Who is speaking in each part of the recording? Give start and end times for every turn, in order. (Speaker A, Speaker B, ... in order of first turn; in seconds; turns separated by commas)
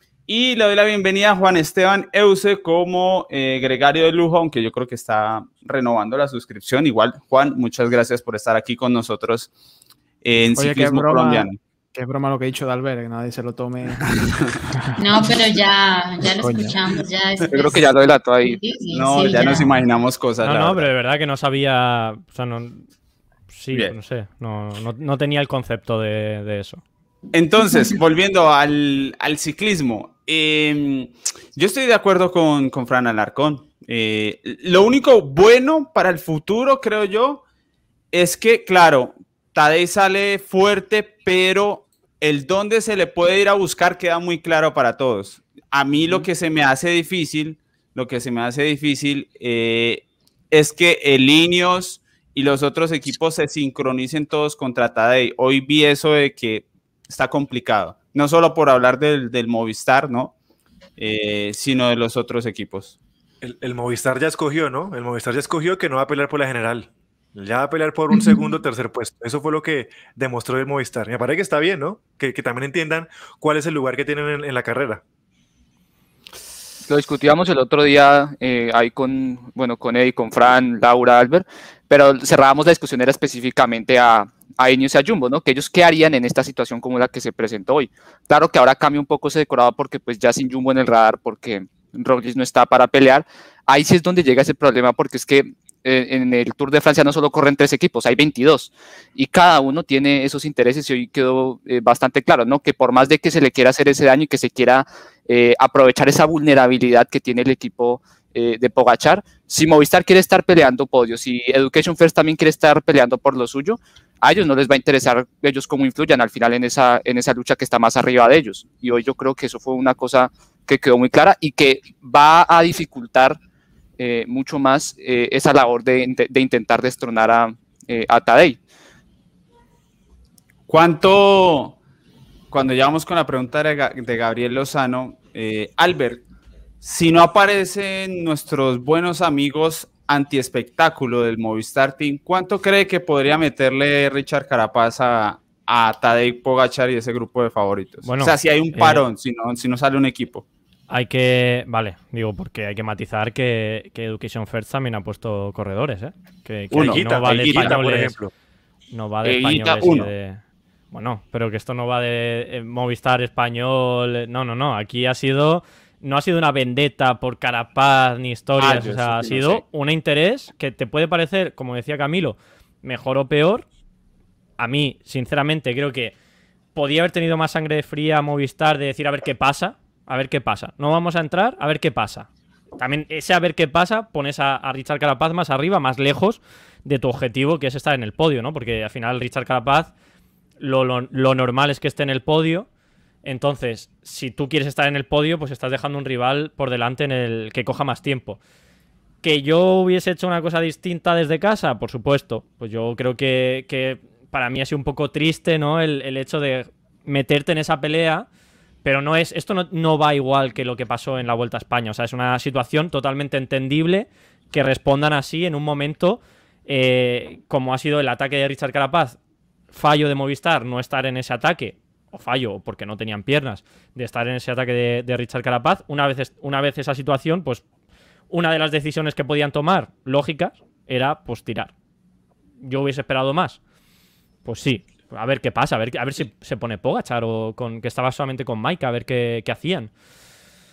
Speaker A: 0.3-9.5, Speaker A: 10.2-11.6, Speaker B: 10.6-14.2, Speaker B: 14.7-15.2, Speaker C: 15.0-19.8, Speaker B: 16.4-16.8, Speaker D: 17.5-18.6, Speaker A: 18.9-20.9, Speaker E: 20.4-22.9, Speaker E: 23.5-26.8, Speaker A: 27.3-37.4, Speaker A: 38.1-60.3, Speaker A: 61.0-63.0, Speaker F: 63.4-75.0, Speaker D: 76.9-123.4, Speaker D: 124.0-128.6, Speaker A: 130.7-131.8, Speaker A: 132.5-136.2, Speaker A: 136.8-150.4, Speaker E: 148.0-149.0, Speaker E: 150.9-158.2, Speaker A: 156.7-157.3, Speaker F: 156.7-158.3, Speaker D: 157.4-157.8, Speaker E: 158.9-173.7, Speaker D: 159.2-160.0, Speaker A: 159.8-160.1, Speaker A: 168.6-169.6, Speaker E: 174.6-176.1, Speaker E: 176.7-189.9, Speaker E: 190.6-192.7, Speaker E: 193.2-198.4, Speaker E: 199.2-208.3, Speaker E: 208.8-219.2, Speaker E: 219.7-227.6, Speaker E: 228.3-231.7, Speaker E: 232.6-233.6, Speaker E: 234.4-239.9